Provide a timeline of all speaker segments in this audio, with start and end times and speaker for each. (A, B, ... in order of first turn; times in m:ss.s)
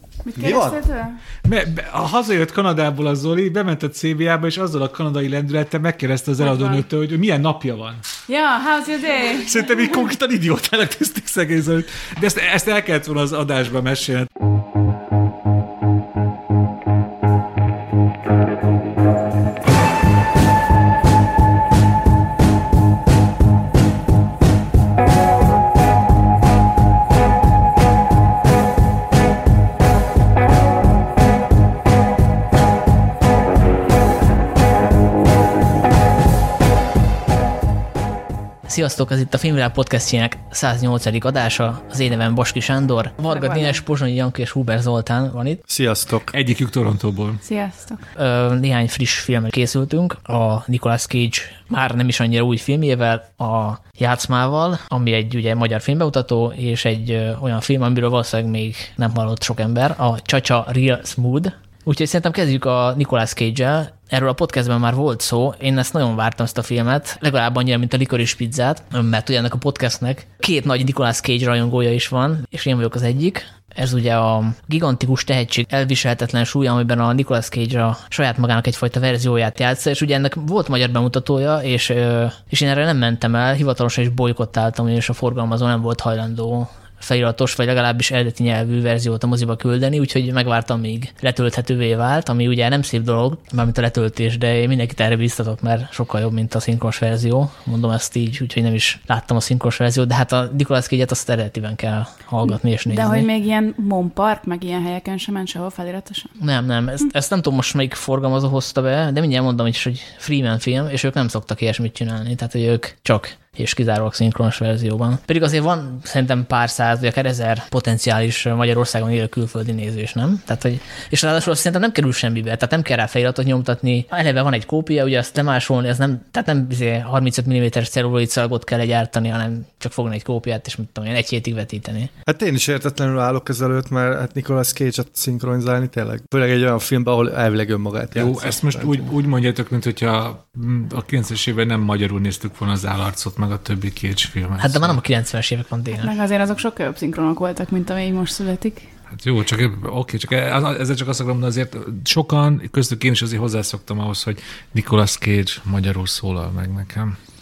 0:00.3-0:01.2 A
0:00.4-0:00.8 B
0:01.4-0:08.0 C
0:06.4-0:06.8 A
0:08.3-0:09.7 A
0:09.4-0:14.3 C
0:38.6-0:45.6 D
0:43.3-0:43.8 A
0:45.7-0:46.3 B
0:46.3-0:47.4 C
0:47.4-0:48.1 A
0:48.2-1:43.3 D
1:42.9-1:46.3 A
1:46.4-2:12.1 D
2:12.3-2:19.1 B
2:18.1-2:25.0 C
2:24.6-2:26.1 D
2:25.9-2:28.8 A
2:29.1-2:37.2 C